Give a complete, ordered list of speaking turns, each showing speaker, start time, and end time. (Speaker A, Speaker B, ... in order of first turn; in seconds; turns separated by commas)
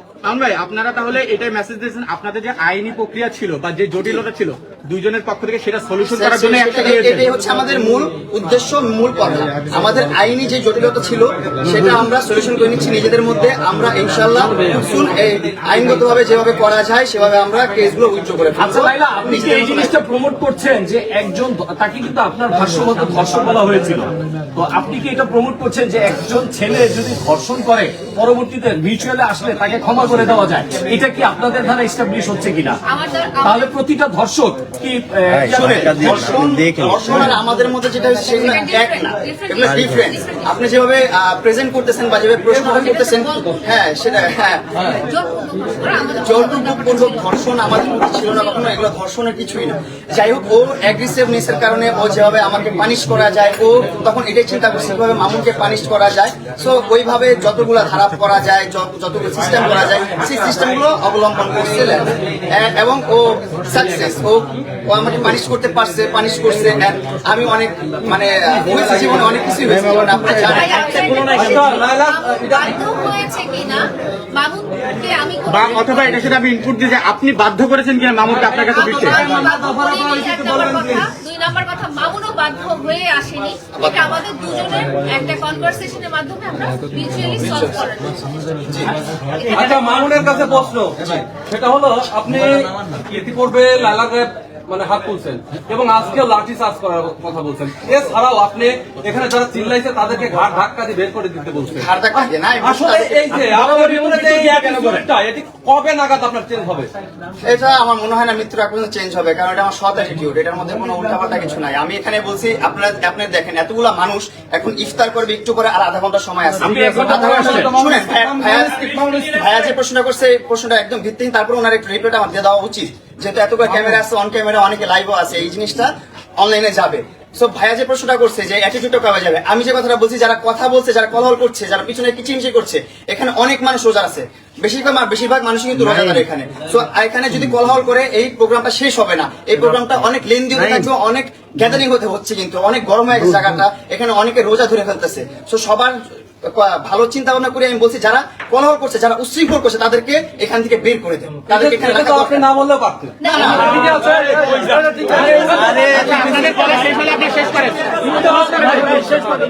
Speaker A: 0.2-7.3, Speaker B: 6.0-19.9, Speaker C: 18.5-32.8, Speaker D: 32.9-33.7, Speaker C: 33.4-36.3, Speaker B: 35.5-45.0, Speaker D: 38.3-40.6, Speaker D: 42.5-43.8, Speaker D: 44.9-48.4, Speaker B: 46.0-71.3, Speaker D: 70.2-76.2, Speaker E: 71.1-72.6, Speaker A: 75.5-79.2, Speaker D: 78.7-88.3, Speaker E: 79.0-81.0, Speaker B: 83.8-84.1, Speaker B: 88.7-88.9, Speaker D: 89.3-90.1, Speaker E: 89.5-106.9, Speaker B: 101.7-103.4, Speaker C: 103.3-105.1, Speaker B: 107.4-152.5, Speaker C: 116.6-117.8, Speaker A: 117.0-119.1, Speaker E: 151.5-156.0, Speaker D: 153.2-154.0, Speaker B: 153.2-153.8, Speaker C: 153.7-154.1, Speaker C: 155.0-155.8, Speaker A: 155.8-158.8, Speaker E: 158.2-159.1